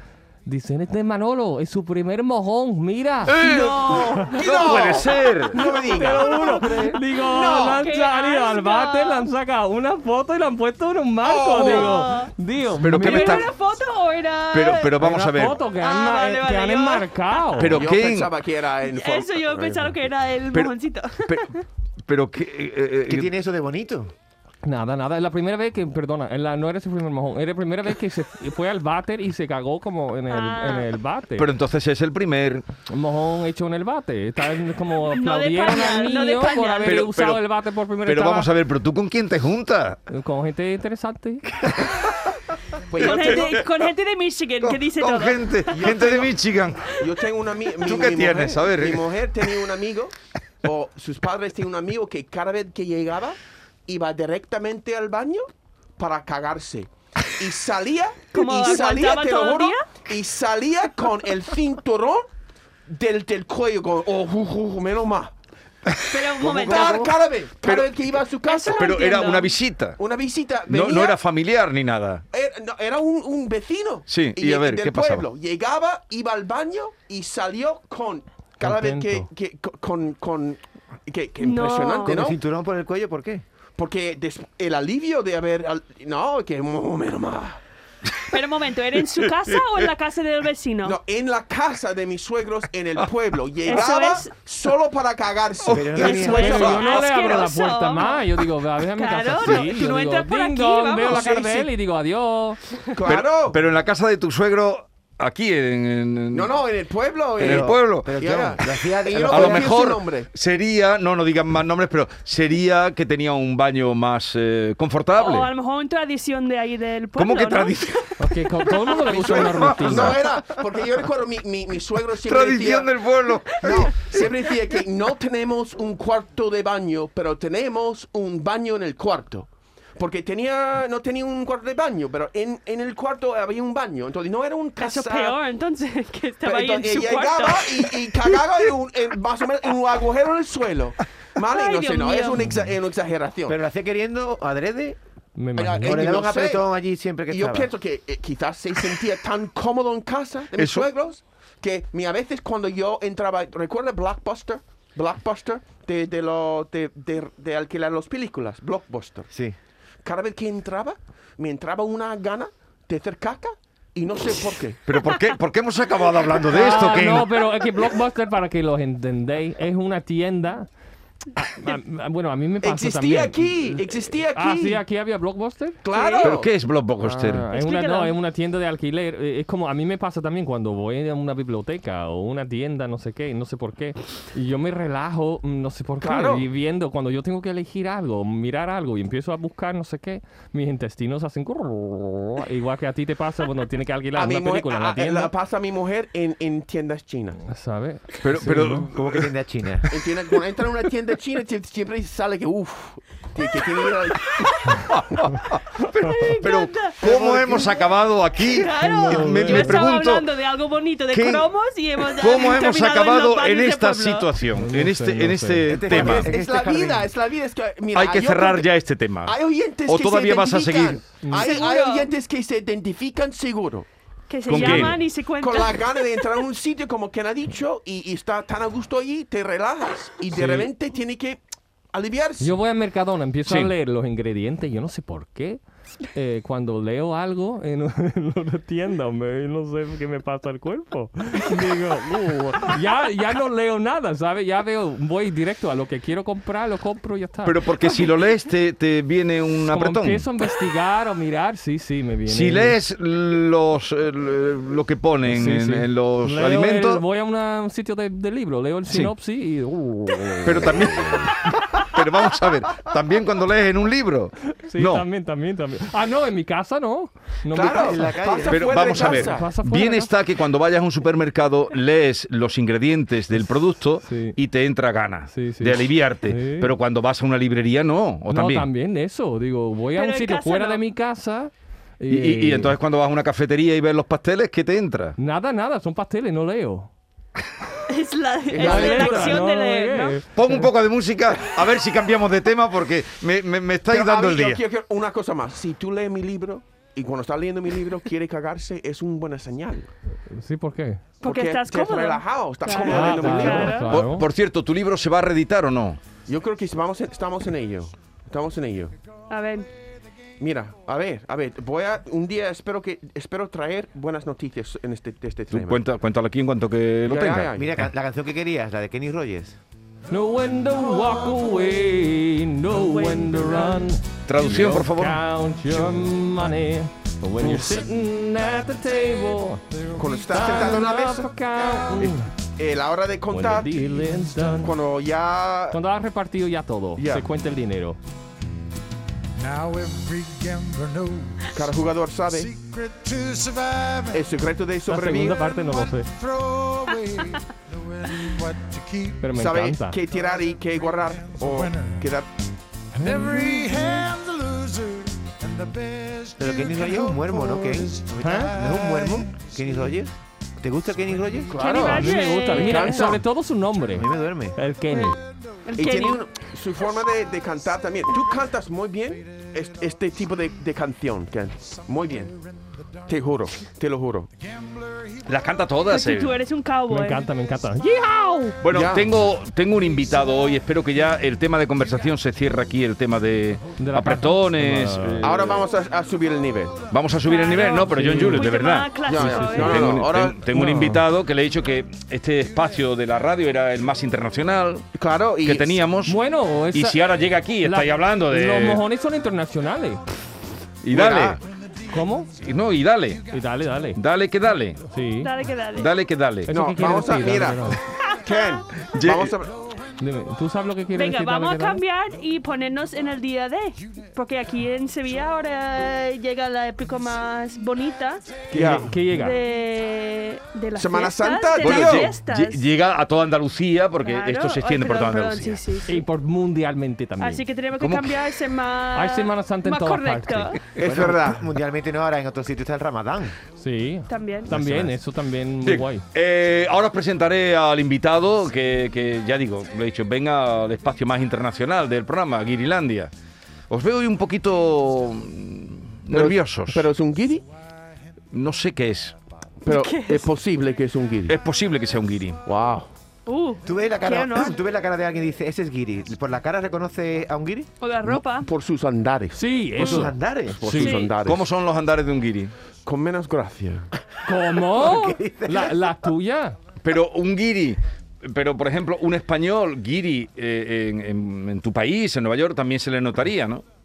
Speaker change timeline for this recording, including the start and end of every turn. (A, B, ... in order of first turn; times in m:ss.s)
0:00.4-0:03.4 A
0:03.2-0:05.6 B
0:03.4-0:04.7 C
0:03.4-0:07.8 D
0:05.6-0:13.5 A
0:07.8-0:09.3 C
0:11.2-0:12.0 D
0:11.6-0:12.3 C
0:12.8-0:13.5 B
0:13.0-0:15.0 C
0:14.5-0:15.6 B
0:15.0-0:17.8 A
0:15.7-0:17.5 C
0:17.5-0:18.3 B
0:17.7-0:20.0 D
0:18.8-0:21.6 C
0:22.1-0:23.3 B
0:23.1-0:24.1 E
0:24.6-0:31.5 A
0:30.3-0:30.9 C
0:31.4-0:32.6 B
0:32.9-0:38.5 A
0:35.1-0:37.0 C
0:36.8-0:37.4 B
0:38.0-0:40.0 B
0:40.1-0:41.4 A
0:41.6-0:42.2 B
0:42.9-0:43.6 D
0:43.0-0:45.9 C
0:43.0-0:43.6 B
0:44.6-0:46.9 B
0:45.7-0:46.4 D
0:47.0-1:02.2 D
0:47.8-0:49.0 B
0:58.3-0:59.9 C
1:02.9-1:05.3 D
1:05.9-1:07.1 B
1:06.1-1:07.1 C
1:06.4-1:09.1 D
1:06.6-1:07.1 E
1:07.6-1:07.9 B
1:08.4-1:09.5 C
1:08.7-1:10.0 B
1:10.0-1:11.2 D
1:10.7-1:12.2 B
1:12.3-1:22.4 D
1:14.1-1:15.2 B
1:18.6-1:19.3 A
1:21.4-1:22.2 C
1:22.0-1:23.4 E
1:23.8-1:27.6 D
1:28.3-1:31.0 C
1:30.8-1:37.4 D
1:33.6-1:34.3 C
1:35.7-1:36.7 E
1:35.7-1:36.0 B
1:36.0-1:38.3 C
1:36.0-1:42.6 A
1:39.0-1:41.3 C
1:41.0-1:41.7 D
1:42.9-1:43.6 D
1:43.0-1:46.5 B
1:46.3-1:50.3 D
1:47.4-1:49.8 E
1:47.4-1:48.1 B
1:49.3-1:55.5 B
1:55.2-1:58.1 C
1:57.2-1:58.1 B
1:58.2-2:00.2 A
1:59.0-2:02.9 D
1:59.2-2:00.3 B
2:02.2-2:04.2 B
2:03.5-2:15.4 D
2:14.8-2:18.7 C
2:16.4-2:23.6 D
2:21.5-2:22.5 C
2:23.5-2:25.0 E
2:25.4-2:26.0 A
2:25.6-2:26.6 D
2:25.8-2:27.7 E
2:27.3-2:39.3 D
2:30.5-2:30.9 B
2:39.3-2:39.6 E
2:40.0-2:44.8 D
2:44.8-2:47.4 B
2:46.5-2:50.7 A
2:51.4-2:55.8 A
2:52.6-2:54.8 D
2:55.8-2:56.5 D
2:55.9-2:56.4 C
2:56.2-2:57.5 B
2:57.0-3:15.3 A
2:57.5-2:58.1 C
3:06.0-3:06.5 D
3:14.1-3:17.4 D
3:17.4-3:18.9 A
3:18.2-3:19.3 B
3:18.9-3:19.9 E
3:19.9-3:24.7 D
3:24.2-3:24.8 C
3:24.9-3:30.3 B
3:25.8-3:27.0 C
3:27.0-3:27.7 D
3:28.4-3:34.3 C
3:28.8-3:29.8 A
3:31.1-3:31.5 B
3:32.1-3:36.3 B
3:34.6-3:35.7 A
3:35.6-3:37.1 E
3:35.9-3:38.7 D
3:37.9-3:41.0 B
3:39.2-3:43.9 D
3:41.2-3:41.5 A
3:41.4-3:42.1 C
3:44.3-3:46.3 C
3:44.5-3:45.0 B
3:44.5-3:51.4 D
3:50.3-3:50.7 A
3:51.9-3:52.6 D
3:52.4-3:55.6 A
3:53.4-3:53.7 B
3:56.1-4:07.9 A
4:07.4-4:10.3 B
4:09.7-4:12.8 A
4:12.2-4:17.0 B
4:15.2-4:21.3 A
4:18.9-4:19.1 B
4:20.4-4:25.0 B
4:24.5-4:28.2 A
4:27.5-4:29.5 D
4:27.6-4:29.2 E
4:28.4-4:38.7 B
4:28.7-4:30.1 A
4:34.0-4:34.4 A
4:35.3-4:36.7 A
4:38.3-4:42.8 A
4:40.0-4:40.8 C
4:42.1-4:45.2 B
4:45.2-4:46.9 A
4:47.9-4:50.2 C
4:48.5-4:49.4 D
4:48.6-4:50.7 A
4:50.3-4:54.6 B
4:53.9-4:59.9 D
5:00.3-5:01.0 A
5:01.2-5:03.9 C
5:01.2-5:03.9 D
5:02.8-5:04.3 A
5:03.8-5:06.0 B
5:06.3-5:08.9 D
5:09.3-5:09.7 C
5:10.4-5:15.8 D
5:15.5-5:17.5 B
5:17.0-5:17.7 D
5:17.5-5:19.6 E
5:20.1-5:29.6 A
5:22.7-5:23.9 C
5:24.2-5:25.2 B
5:27.4-5:27.9 F
5:29.7-5:32.1 F
5:30.0-5:31.3 D
5:30.3-5:32.3 A
5:32.0-5:33.7 D
5:33.3-5:34.8 A
5:33.8-5:34.7 F
5:34.6-5:35.8 D
5:35.7-5:38.0 A
5:37.0-5:37.3 D
5:39.4-5:44.4 F
5:41.5-5:42.5 D
5:44.1-5:45.4 D
5:44.9-5:46.1 A
5:45.3-5:49.3 F
5:49.2-5:50.0 A
5:49.3-5:52.3 D
5:50.0-5:52.1 F
5:52.9-6:00.0 F
5:53.0-5:53.9 A
5:56.4-6:01.6 E
5:58.2-5:58.5 A
6:01.1-6:01.4 F
6:01.5-6:03.2 D
6:01.5-6:03.1 C
6:01.8-6:05.2 A
6:03.9-6:04.6 E
6:05.1-6:05.6 F
6:05.6-6:06.2 C
6:05.8-6:12.3 D
6:08.1-6:08.4 F
6:09.1-6:10.5 F
6:11.6-6:13.3 F
6:13.1-6:14.3 D
6:14.3-6:15.9 F
6:15.3-6:16.4 B
6:15.9-6:17.3 C
6:16.9-6:18.6 A
6:18.6-6:25.6 B
6:18.7-6:19.1 D
6:18.8-6:22.6 F
6:23.5-6:24.2 F
6:23.8-6:25.5 A
6:25.2-6:26.8 D
6:25.5-6:27.4 F
6:26.9-6:34.9 B
6:27.2-6:29.9 C
6:27.9-6:28.5 A
6:29.0-6:30.4 D
6:29.2-6:29.9 A
6:30.5-6:31.0 A
6:31.5-6:31.9 F
6:32.4-6:32.9 F
6:34.9-6:35.8 D
6:35.4-6:36.2 B
6:36.0-6:37.0 A
6:36.7-6:38.8 B
6:37.6-6:40.0 A
6:40.8-6:41.4 B
6:40.9-6:41.4 D
6:41.4-6:43.9 F
6:41.9-6:42.3 A
6:42.4-6:43.2 B
6:43.3-6:44.0 A
6:43.9-6:44.8 B
6:44.9-6:45.3 A
6:45.2-6:45.9 C
6:45.8-6:46.5 B
6:46.4-6:47.8 A
6:46.5-6:49.5 D
6:48.0-6:48.7 C
6:48.8-6:49.4 B
6:50.0-6:51.8 A
6:50.9-6:58.4 C
6:58.5-6:59.4 A
6:58.5-6:58.9 D
6:59.1-7:02.7 C
7:00.8-7:02.1 D
7:01.6-7:05.6 B
7:04.0-7:06.0 C
7:05.9-7:07.4 A
7:07.2-7:10.6 C
7:07.8-7:08.1 B
7:08.9-7:10.6 A
7:10.8-7:11.4 D
7:10.8-7:13.4 E
7:13.6-7:16.0 A
7:14.1-7:14.5 C
7:14.5-7:14.9 B
7:15.6-7:23.1 B
7:23.7-7:26.9 B
7:26.1-7:27.4 D
7:28.3-7:29.2 B
7:29.6-7:31.4 D
7:29.7-7:30.3 C
7:31.3-7:32.4 B
7:32.4-7:32.9 D
7:33.2-7:34.6 C
7:33.6-7:37.7 E
7:37.8-7:38.5 C
7:38.0-7:41.5 D
7:39.3-7:41.0 A
7:39.7-7:40.6 E
7:40.7-7:41.1 C
7:40.8-7:42.5 B
7:42.8-7:43.9 D
7:44.2-7:46.6 A
7:44.6-7:46.0 E
7:46.8-7:53.6 B